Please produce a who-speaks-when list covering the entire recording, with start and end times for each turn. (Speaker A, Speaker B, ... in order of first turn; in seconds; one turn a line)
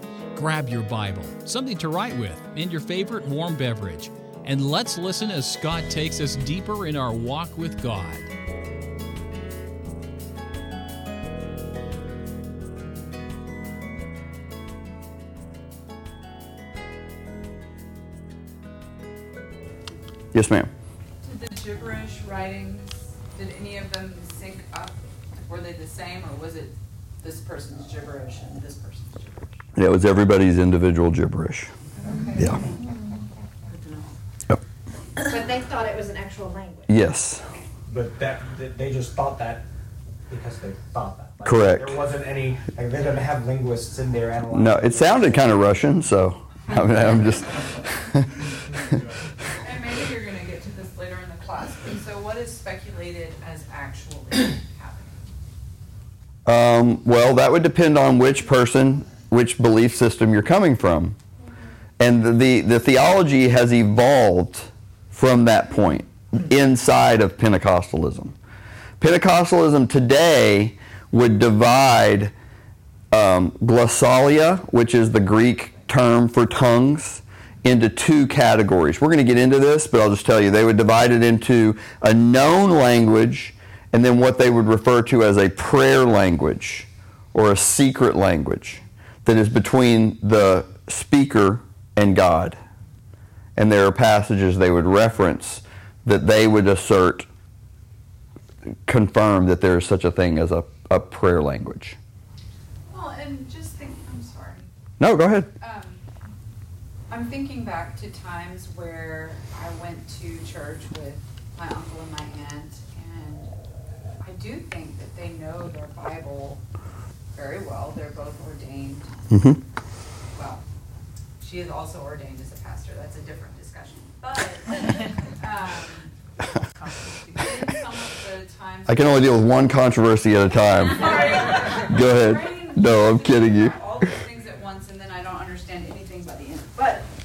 Speaker A: 0.3-8.3
Speaker B: 20.3-20.7
Speaker C: 21.2-29.6
Speaker B: 29.8-31.7
Speaker D: 32.1-32.5
Speaker D: 35.2-36.9
Speaker B: 36.9-37.4
Speaker E: 37.9-39.6
Speaker E: 40.3-45.5
Speaker B: 41.4-41.9
Speaker B: 44.5-48.4
Speaker C: 49.6-55.2
Speaker B: 56.5-61.2
Speaker B: 62.0-68.3
Speaker B: 69.0-72.3
Speaker B: 73.1-92.6
Speaker B: 93.6-97.2
Speaker B: 98.9-102.0
Speaker C: 102.9-104.7
Speaker B: 105.0-105.5
Speaker C: 105.6-106.0
Speaker C: 107.1-113.5
Speaker C: 114.2-116.6
Speaker C: 117.3-119.1
Speaker B: 119.3-119.6
Speaker C: 120.3-120.6
Speaker C: 121.4-129.4
Speaker B: 128.9-133.7
Speaker C: 130.8-137.1